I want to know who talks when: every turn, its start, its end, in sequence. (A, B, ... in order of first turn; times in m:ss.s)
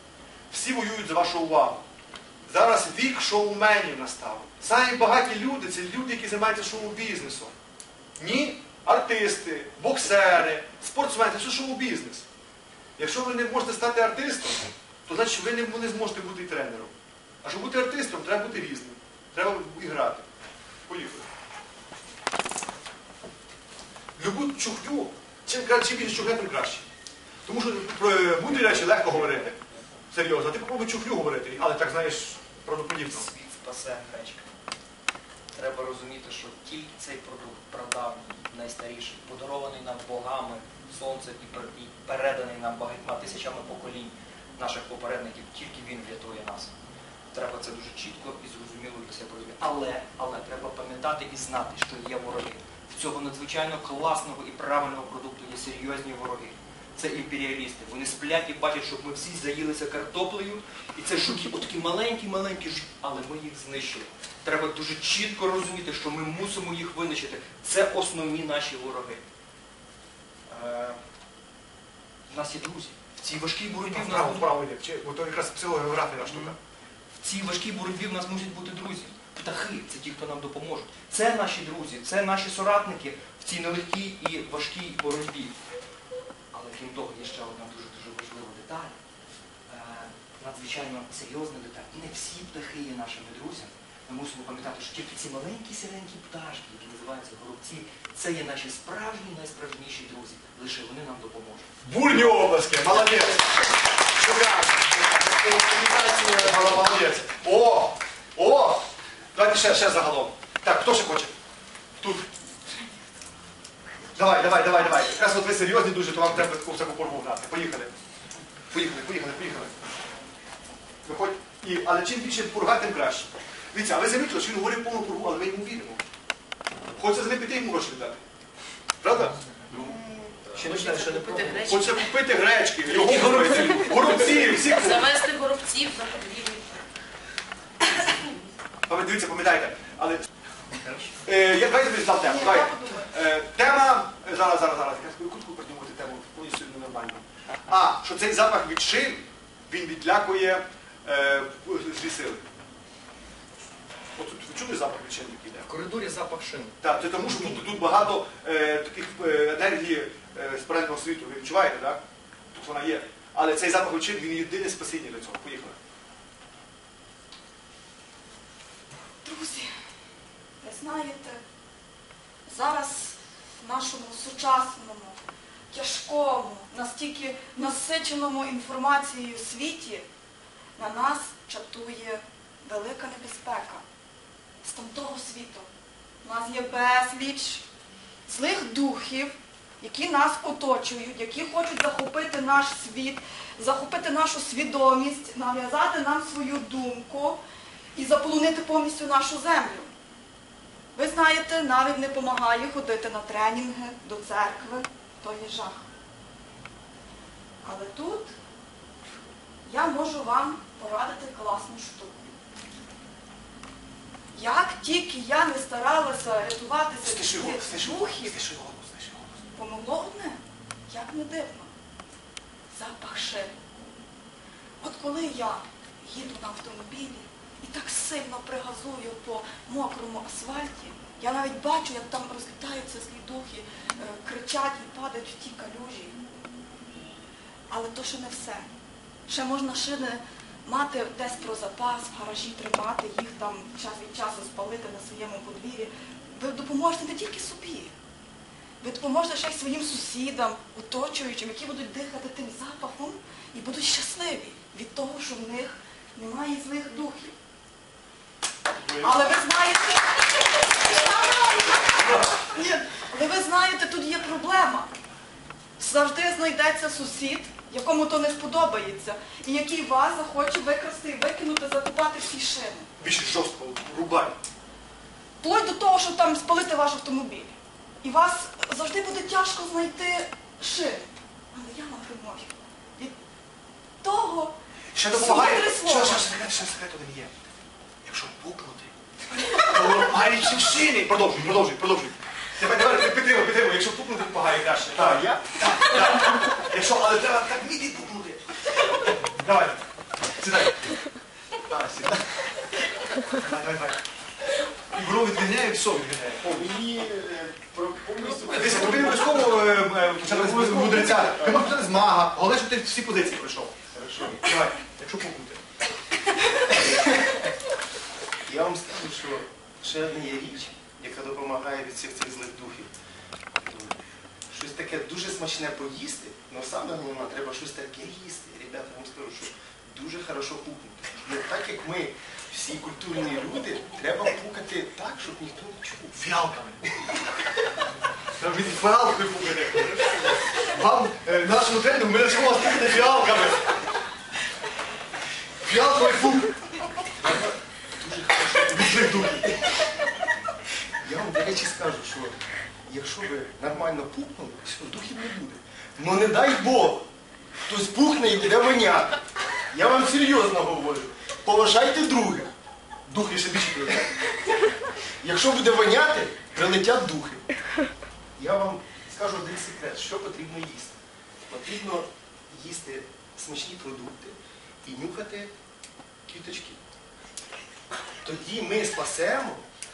0:00.5-0:01.8 A
0:02.5-0:07.5 A
0:08.2-0:12.2 A
0:13.0-0:20.3 A
0:20.9-0:21.3 A
0:24.2-0:26.8 A
0:27.4-0:29.6 A
0:30.1-0:33.3 A
0:33.0-0:34.5 B
0:35.5-0:46.7 B
0:47.3-1:09.2 B
1:10.5-1:11.0 B
1:12.3-1:14.5 B
1:13.8-1:16.6 A
1:16.2-1:16.5 B
1:17.2-1:25.6 B
1:26.5-1:28.9 B
1:29.7-1:41.7 B
1:41.8-1:51.3 A
1:52.0-1:52.2 A
1:54.1-1:57.9 A
1:58.7-1:59.7 A
2:01.0-2:06.0 A
2:06.9-2:08.2 A
2:09.0-2:09.4 A
2:09.8-2:12.0 C
2:10.5-2:11.6 B
2:11.5-2:15.1 A
2:14.3-2:16.8 C
2:18.9-2:20.3 A
2:20.8-2:21.1 B
2:21.2-2:32.4 A
2:22.2-2:23.1 D
2:34.2-2:35.7 A
2:35.6-2:37.8 B
2:36.8-2:45.8 A
2:49.2-2:49.7 D
2:50.6-2:51.4 D
2:52.5-2:55.2 D
2:55.7-3:00.0 D
3:00.8-3:03.8 D
3:04.6-3:05.7 D
3:06.2-3:07.6 D
3:08.3-3:17.4 D
3:17.9-3:19.9 D
3:20.9-3:25.8 D
3:27.6-3:28.3 D
3:29.6-3:32.3 D
3:34.3-3:38.4 D
3:37.0-3:39.4 A
3:39.5-3:41.7 D
3:42.7-3:43.5 D
3:44.8-3:56.2 D
3:57.7-3:58.7 D
3:59.3-4:07.9 D
4:08.8-4:17.3 D
4:18.8-4:19.1 A
4:19.0-4:24.9 D
4:22.0-4:22.3 A
4:25.8-4:32.9 D
4:33.0-4:34.4 A
4:35.4-4:43.2 D
4:44.0-4:46.2 D
4:44.9-4:47.3 A
4:48.0-4:48.9 A
4:49.5-4:58.5 A
4:54.9-4:55.4 E
4:59.1-4:59.8 A
5:00.4-5:00.9 A
5:01.6-5:02.2 A
5:03.2-5:04.0 A
5:04.9-5:06.6 A
5:06.4-5:11.7 E
5:08.4-5:13.7 A
5:13.9-5:14.5 E
5:14.4-5:15.6 A
5:16.7-5:17.4 E
5:18.4-5:22.9 E
5:23.6-5:24.0 E
5:24.5-5:36.2 E
5:36.1-5:36.8 A
5:38.4-5:43.8 A
5:45.6-5:46.6 A
5:47.2-5:49.8 E
5:48.7-5:49.4 A
5:50.9-5:57.1 E
5:57.7-6:02.5 E
6:03.0-6:04.3 E
6:05.2-6:07.5 E
6:08.4-6:15.5 E
6:16.3-6:16.8 E
6:18.1-6:19.6 E